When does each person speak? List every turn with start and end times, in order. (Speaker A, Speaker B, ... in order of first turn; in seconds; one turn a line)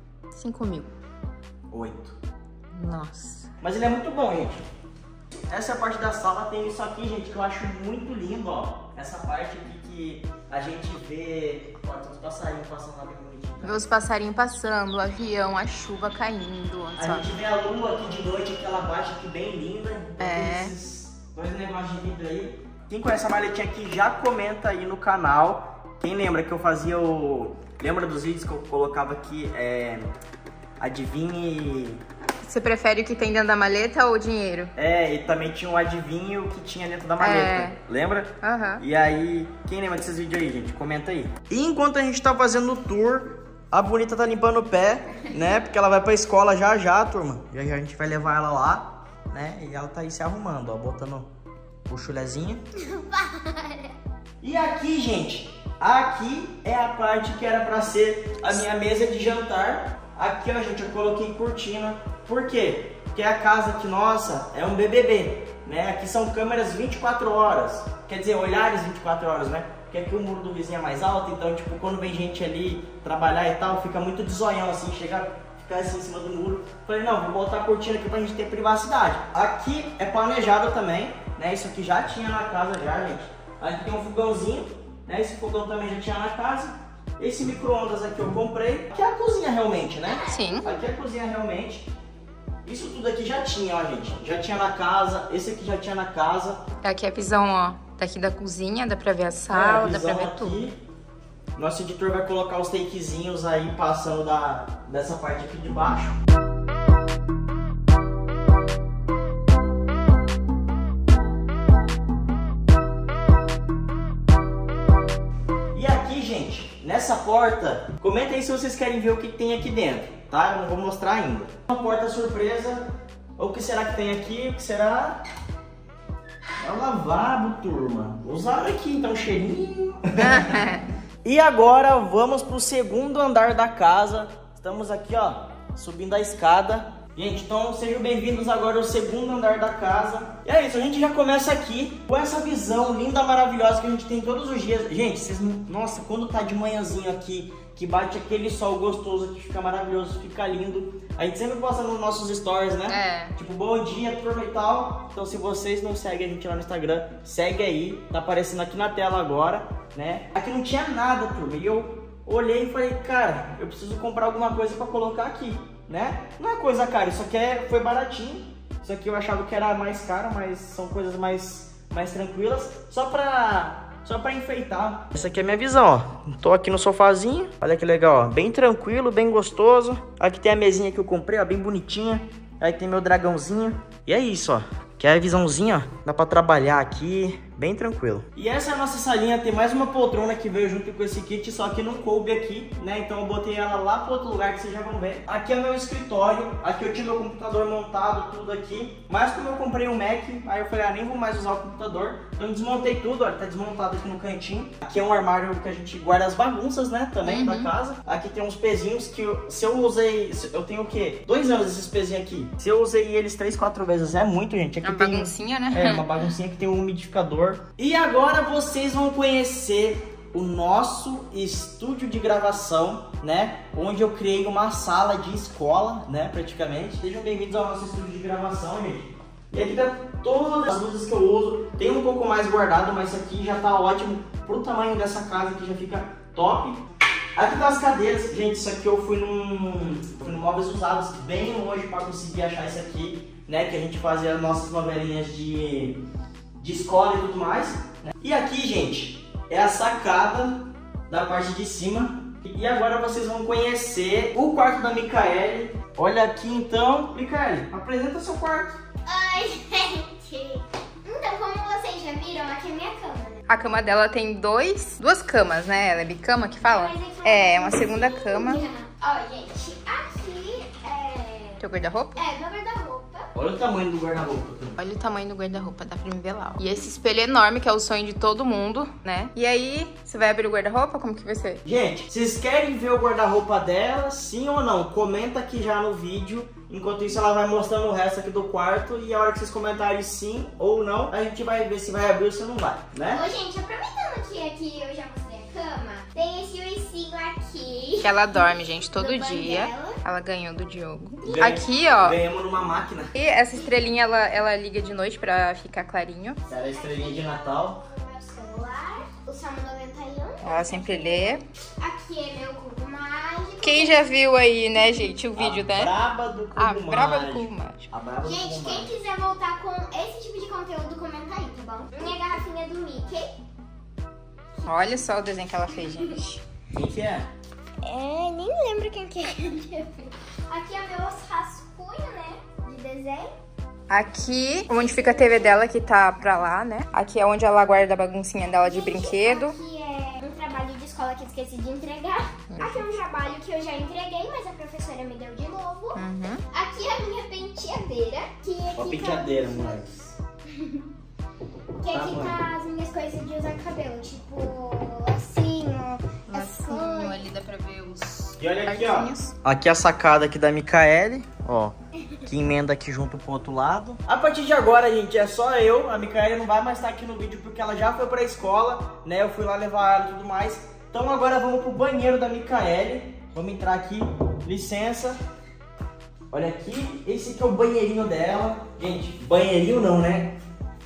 Speaker A: 0.3-0.9
Speaker B: 1.7-2.2
Speaker A: 2.7-3.5
Speaker B: 3.6-4.6
Speaker B: 5.5-13.8
Speaker A: 13.6-17.3
Speaker B: 16.9-30.1
Speaker A: 20.2-20.7
Speaker B: 30.8-32.0
Speaker A: 32.5-34.7
Speaker B: 34.8-51.3
Speaker A: 37.2-37.8
Speaker A: 38.4-38.8
Speaker B: 51.9-52.6
Speaker C: 52.8-53.9
Speaker B: 54.4-91.9
Speaker C: 90.0-90.6
Speaker A: 90.1-90.7
Speaker B: 92.6-96.6
Speaker A: 96.8-100.6
Speaker B: 99.5-100.8
Speaker B: 101.5-106.2
Speaker B: 115.7-122.8
Speaker B: 123.4-125.2
Speaker B: 126.6-130.6
Speaker A: 130.2-130.9
Speaker B: 131.2-236.8
Speaker A: 152.9-153.3
Speaker A: 207.2-207.7
Speaker A: 214.8-216.2
Speaker B: 237.3-246.0
Speaker B: 246.6-258.8
Speaker C: 259.0-263.4
Speaker A: 263.5-268.6
Speaker C: 266.6-271.6
Speaker A: 271.6-272.2
Speaker C: 272.1-273.3
Speaker B: 273.3-274.8
Speaker A: 274.8-281.6
Speaker B: 281.6-293.2
Speaker C: 293.1-300.0
Speaker A: 298.0-302.2
Speaker C: 301.2-301.8
Speaker B: 301.2-303.1
Speaker A: 303.1-306.4
Speaker B: 306.5-307.8
Speaker C: 306.5-314.1
Speaker A: 310.4-311.4
Speaker A: 313.6-315.9
Speaker B: 315.4-318.9
Speaker A: 316.5-317.9
Speaker C: 318.2-323.3
Speaker A: 324.6-326.4
Speaker B: 326.7-327.3
Speaker C: 327.8-333.3
Speaker A: 333.9-339.6
Speaker C: 334.7-335.6
Speaker C: 338.6-350.9
Speaker A: 342.5-342.9
Speaker A: 345.9-346.4
Speaker B: 348.7-349.9
Speaker C: 351.8-357.2
Speaker B: 351.9-352.4
Speaker A: 356.3-359.3
Speaker B: 358.4-375.2
Speaker B: 376.3-380.4